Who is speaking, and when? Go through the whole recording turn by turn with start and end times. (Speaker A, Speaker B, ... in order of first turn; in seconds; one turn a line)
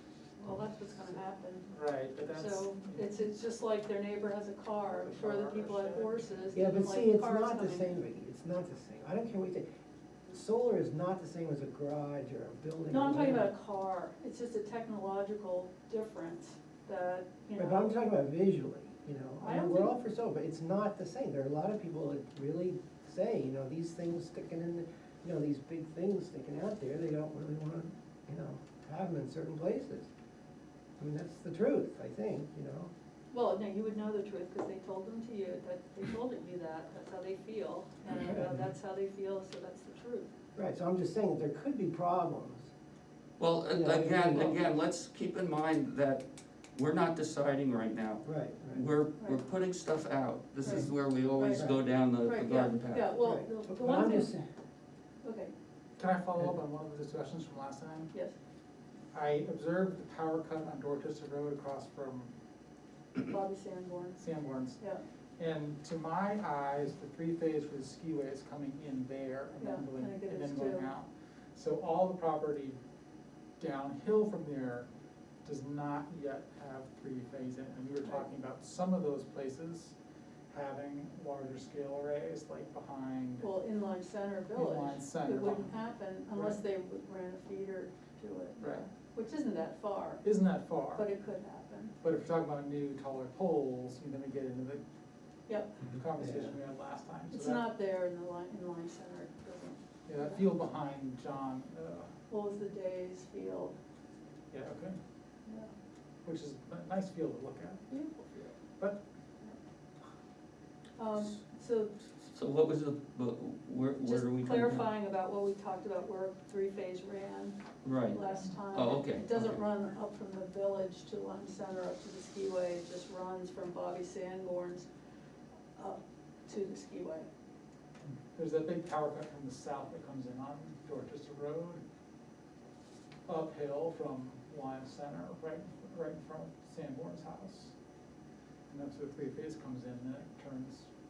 Speaker A: 0.4-1.7
Speaker B: 1.7-3.1
Speaker A: 2.3-8.0
Speaker B: 5.0-6.3
Speaker C: 6.5-9.7
Speaker C: 10.3-13.5
Speaker A: 12.9-17.9
Speaker C: 17.6-30.1
Speaker A: 19.4-19.9
Speaker C: 31.0-32.9
Speaker A: 33.3-40.3
Speaker C: 38.2-38.6
Speaker C: 40.5-42.7
Speaker D: 43.4-53.1
Speaker C: 43.7-44.6
Speaker C: 48.2-48.8
Speaker A: 50.6-54.3
Speaker C: 53.2-54.4
Speaker A: 55.2-55.5
Speaker B: 56.0-58.1
Speaker B: 59.1-62.3
Speaker A: 63.1-64.2
Speaker B: 64.2-64.8
Speaker A: 64.8-65.0
Speaker B: 65.4-72.8
Speaker A: 69.6-70.9
Speaker B: 73.6-74.9
Speaker B: 75.4-79.9
Speaker B: 80.5-83.5
Speaker A: 83.4-90.3
Speaker B: 84.5-85.8
Speaker B: 86.3-86.6
Speaker B: 90.2-91.1
Speaker A: 90.9-91.9
Speaker B: 92.0-94.8
Speaker A: 95.5-95.8
Speaker B: 95.8-97.7
Speaker C: 96.2-96.5
Speaker A: 97.3-100.4
Speaker B: 100.0-102.1
Speaker A: 102.3-103.8
Speaker B: 104.5-105.0
Speaker A: 105.5-105.7
Speaker B: 106.2-107.8
Speaker A: 107.9-108.6
Speaker A: 111.0-111.9
Speaker D: 112.3-114.9
Speaker A: 114.0-117.6
Speaker D: 117.8-119.6
Speaker A: 118.1-124.9
Speaker A: 125.8-127.3
Speaker B: 128.0-131.8
Speaker B: 133.2-137.7
Speaker B: 138.7-140.9